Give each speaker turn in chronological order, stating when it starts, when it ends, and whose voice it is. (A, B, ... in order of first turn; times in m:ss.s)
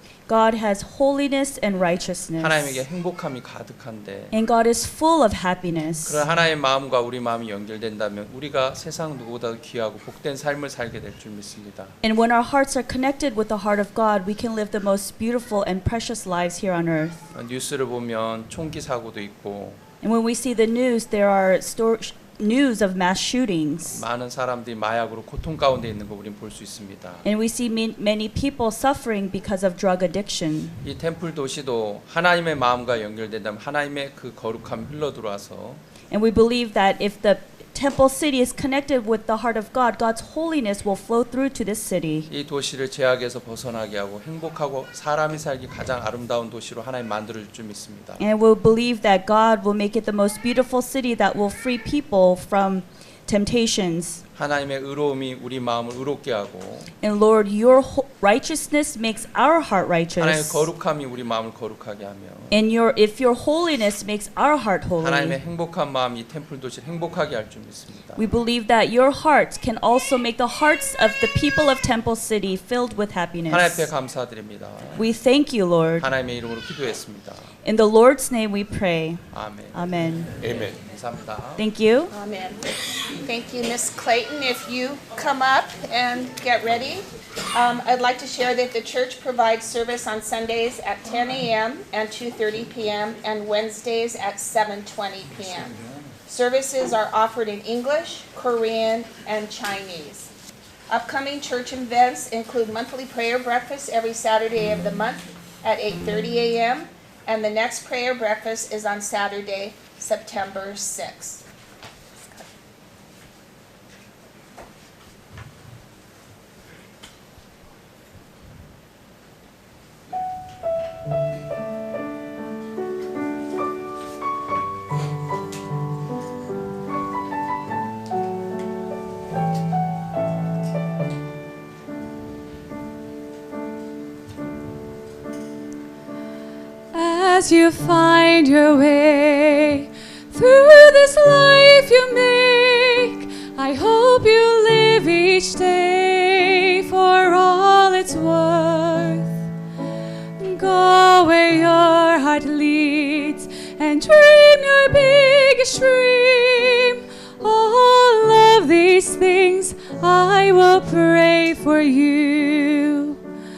0:00.3-0:02.8 A
0:02.4-0:04.3 B
0:04.3-0:06.2 A
0:06.0-0:12.0 B
0:12.0-0:17.2 A
0:17.3-0:19.8 B
0:20.0-0:24.0 A
0:23.8-0:27.2 B
0:27.2-0:30.8 A
0:30.8-0:35.8 B
0:36.1-0:42.3 A
0:42.3-0:48.2 B
0:48.2-0:54.2 A
0:54.3-0:56.9 B
0:57.0-1:00.7 A
1:00.2-1:02.6 B
1:02.5-1:05.4 A
1:05.0-1:08.2 B
1:08.2-1:13.9 A
1:13.5-1:15.0 B
1:15.0-1:16.1 A
1:16.0-1:17.5 B
1:17.6-1:20.3 A
1:19.3-1:21.7 B
1:21.6-1:22.1 A
1:22.1-1:22.6 C
1:23.2-1:35.7 C
1:36.3-1:40.3 C
1:40.9-1:51.4 C
2:16.9-2:29.3 D
2:30.4-2:43.2 D